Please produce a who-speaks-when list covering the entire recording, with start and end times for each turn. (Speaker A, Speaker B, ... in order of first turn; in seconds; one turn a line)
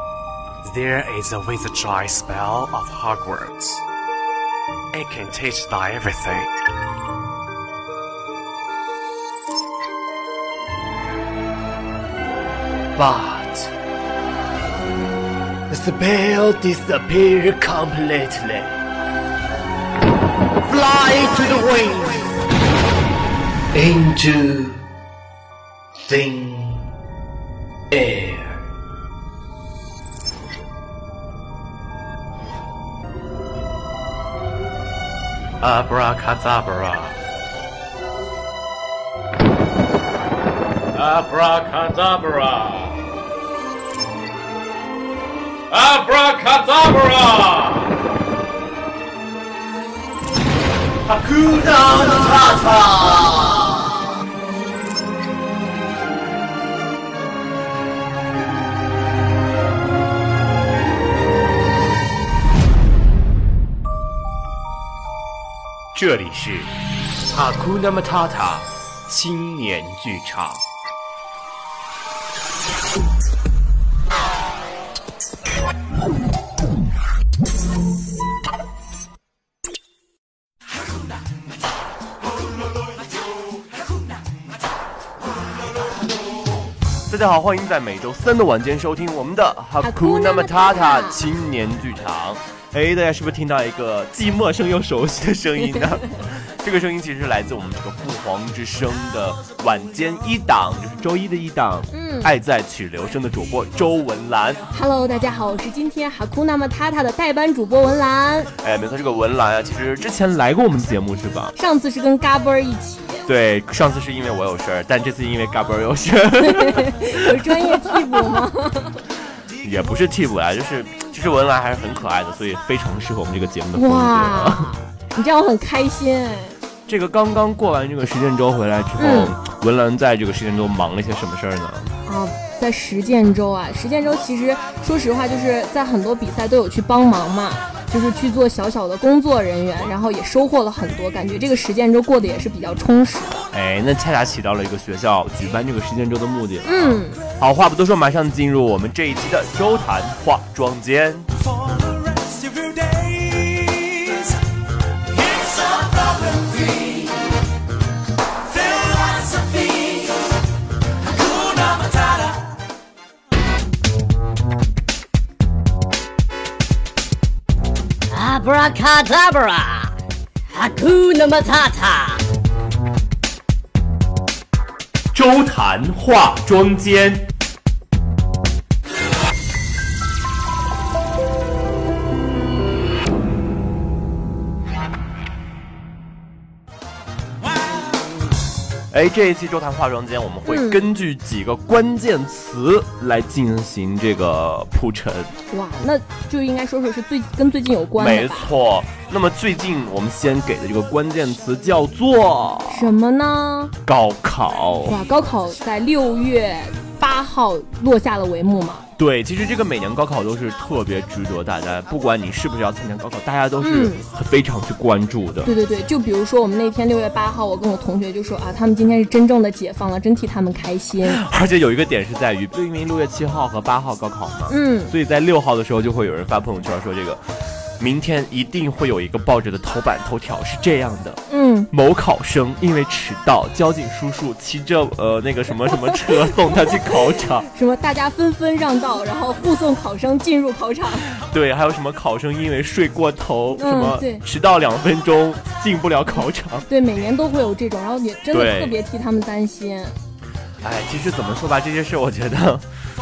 Speaker A: 0.6-3.8
Speaker A: 4.9-6.5
Speaker A: 13.3-13.7
Speaker B: 15.7-16.6
Speaker B: 17.1-18.6
Speaker B: 20.7-21.8
Speaker B: 26.1-26.6
Speaker B: 35.6-37.1
Speaker B: 41.0-43.0
Speaker B: 45.7-47.9
Speaker B: 51.2-53.5
Speaker B: 65.9-66.7
Speaker B: 67.3-70.6
Speaker B: 87.1-104.6
Speaker C: 89.8-91.2
Speaker C: 101.9-102.3
Speaker C: 104.7-108.5
Speaker B: 108.6-111.5
Speaker C: 111.5-113.3
Speaker B: 113.2-118.4
Speaker C: 116.4-119.0
Speaker B: 119.6-124.7
Speaker C: 123.7-126.5
Speaker B: 126.9-131.9
Speaker C: 129.0-129.3
Speaker C: 132.1-143.5
Speaker B: 143.5-151.3
Speaker C: 146.6-147.2
Speaker D: 152.1-153.0
Speaker D: 155.1-157.2
Speaker D: 158.5-160.2
Speaker D: 161.2-162.5
Speaker E: 168.1-169.9
Speaker E: 170.5-172.2
Speaker B: 175.1-177.3
Speaker B: 188.9-195.3
Speaker C: 190.5-190.8
Speaker C: 195.5-198.5
Speaker B: 197.9-202.9
Speaker C: 202.7-203.7
Speaker B: 203.8-205.0
Speaker C: 204.8-208.8
Speaker B: 209.0-215.5
Speaker C: 213.6-214.0
Speaker C: 215.4-221.2
Speaker B: 221.0-227.2
Speaker C: 224.5-224.9
Speaker B: 227.8-237.4
Speaker C: 231.3-231.7
Speaker C: 237.5-241.1
Speaker B: 241.1-246.7
Speaker C: 243.6-244.2
Speaker C: 246.7-249.9
Speaker B: 248.3-248.8
Speaker B: 250.6-252.6